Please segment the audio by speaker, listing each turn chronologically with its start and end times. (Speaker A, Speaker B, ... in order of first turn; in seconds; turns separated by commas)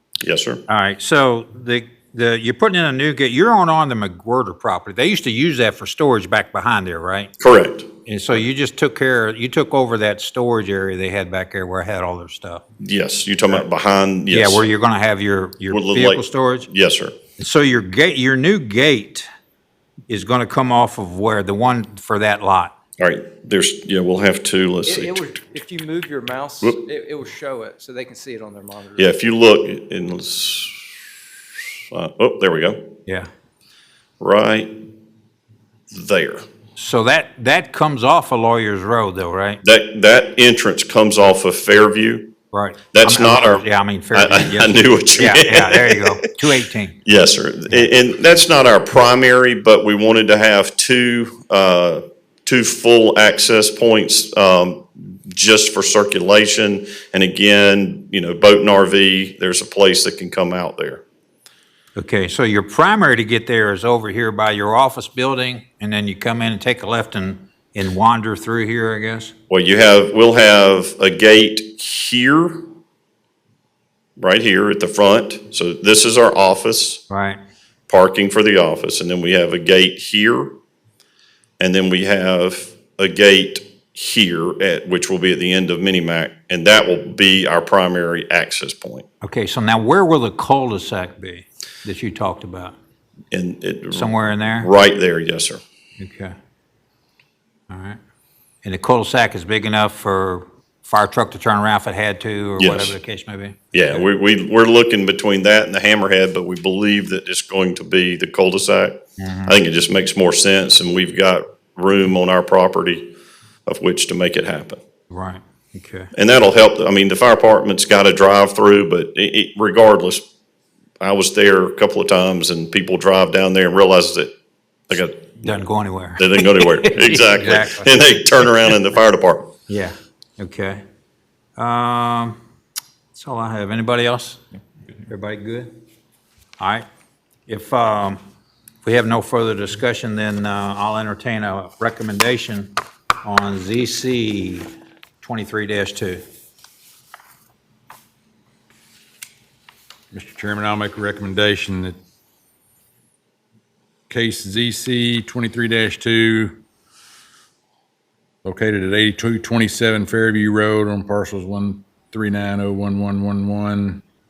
Speaker A: 0.2-0.6, Speaker B: 0.7-7.3, Speaker A: 7.4-7.9, Speaker B: 8.1-12.6, Speaker A: 12.8-14.7, Speaker B: 14.3-16.7, Speaker A: 15.7-17.2, Speaker B: 17.4-19.2, Speaker B: 20.1-22.8, Speaker A: 23.0-25.3, Speaker C: 24.9-29.1, Speaker A: 29.0-30.9, Speaker A: 31.9-32.9, Speaker A: 34.2-34.8, Speaker A: 35.9-36.5, Speaker B: 36.8-39.6, Speaker A: 39.6-42.4, Speaker B: 42.5-47.0, Speaker A: 42.9-46.1, Speaker A: 47.0-61.0, Speaker B: 62.0-69.3, Speaker A: 69.5-72.7, Speaker A: 74.2-77.0, Speaker B: 77.1-77.4, Speaker A: 77.9-80.5, Speaker A: 81.6-89.1, Speaker B: 89.2-92.8, Speaker A: 93.3-95.6, Speaker B: 93.9-94.7, Speaker B: 96.0-96.3, Speaker B: 97.7-98.0, Speaker B: 98.6-104.0, Speaker A: 102.6-103.0, Speaker A: 103.7-113.1, Speaker B: 109.2-109.6, Speaker A: 113.7-114.8, Speaker B: 115.1-116.1, Speaker A: 116.1-120.2, Speaker A: 121.0-124.3, Speaker A: 124.9-125.6, Speaker B: 125.4-127.9, Speaker A: 126.2-129.5, Speaker B: 129.7-130.8, Speaker B: 131.6-132.4, Speaker B: 133.1-134.4, Speaker B: 135.1-135.7, Speaker B: 136.6-136.8, Speaker B: 137.5-138.2, Speaker B: 138.8-146.2, Speaker D: 150.1-152.0, Speaker D: 154.1-156.6, Speaker D: 158.4-164.0